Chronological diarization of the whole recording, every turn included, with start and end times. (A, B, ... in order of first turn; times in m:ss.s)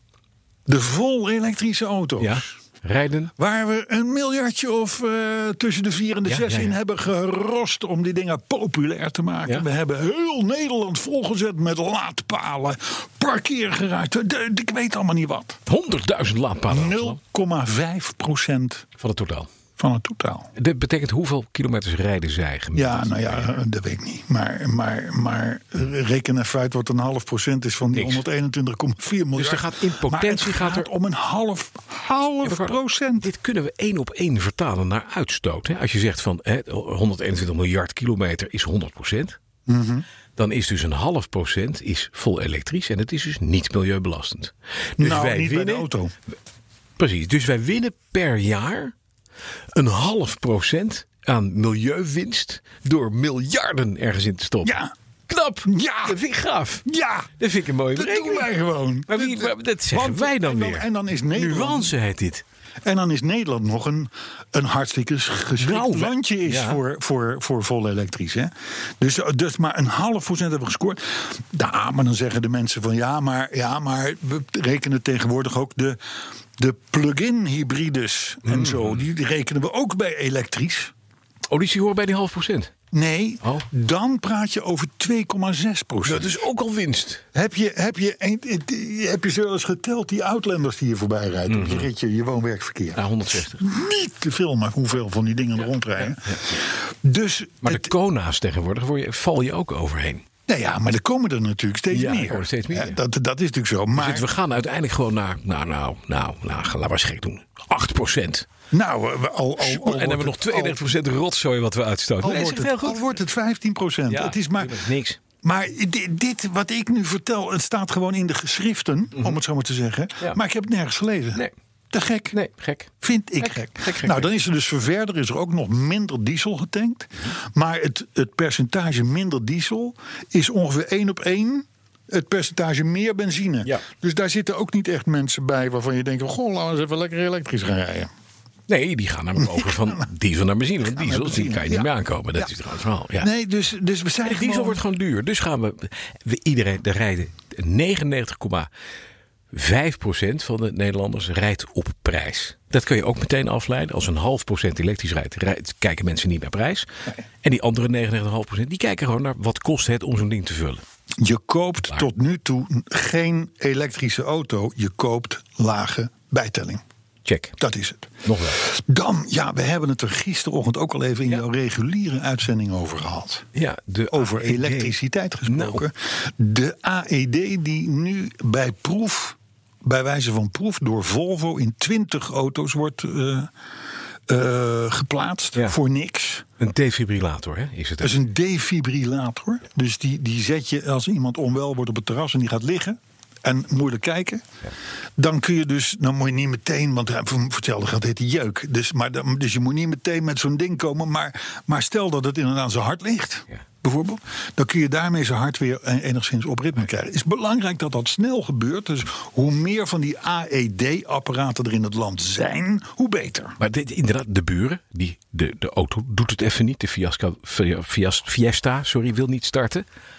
0:00.7-0:02.5 A
0:02.2-0:03.3 B
0:03.4-0:15.6 A
0:06.2-0:06.8 B
0:15.7-0:17.2 B
0:16.7-0:18.8 A
0:19.0-0:19.5 B
0:19.8-0:20.5 A
0:20.5-0:23.6 B
0:22.7-0:33.3 A
0:27.9-0:28.2 B
0:29.4-0:30.9 B
0:32.4-0:39.4 B
0:39.7-0:40.0 A
0:40.4-0:45.9 B
0:45.0-0:46.1 A
0:47.0-0:48.9 B
0:49.7-0:56.8 B
0:54.6-0:54.9 A
0:55.6-0:56.2 A
0:56.8-0:57.3 A
0:57.4-0:58.5 B
0:57.9-1:01.9 A
0:59.1-1:02.4 B
1:02.8-1:16.0 A
1:05.6-1:06.8 B
1:16.6-1:20.9 A
1:18.4-1:19.0 B
1:21.5-1:22.7 B
1:22.9-1:26.4 A
1:26.0-1:27.2 B
1:27.3-1:37.9 A
1:31.5-1:31.9 B
1:32.9-1:33.6 B
1:36.0-1:36.6 B
1:37.6-1:40.2 B
1:40.5-1:44.3 A
1:41.9-1:43.0 B
1:43.9-1:48.5 B
1:48.7-1:50.8 A
1:49.6-1:53.0 B
1:52.2-1:54.8 A
1:54.1-1:55.2 B
1:55.4-2:02.4 A
2:02.3-2:04.3 B
2:03.0-2:18.1 A
2:18.7-2:23.3 B
2:19.4-2:20.0 A
2:20.8-2:22.5 A
2:23.2-2:24.8 A
2:24.2-2:28.7 B
2:29.5-2:40.8 B
2:41.2-2:46.8 A
2:47.2-2:47.6 B
2:47.6-2:53.5 A
2:48.2-2:48.6 B
2:53.5-2:55.8 B
2:54.1-3:03.5 A
3:04.3-3:06.4 A
3:06.6-3:08.2 B
3:08.0-3:14.4 A
3:15.2-3:33.6 A
3:33.6-3:39.8 B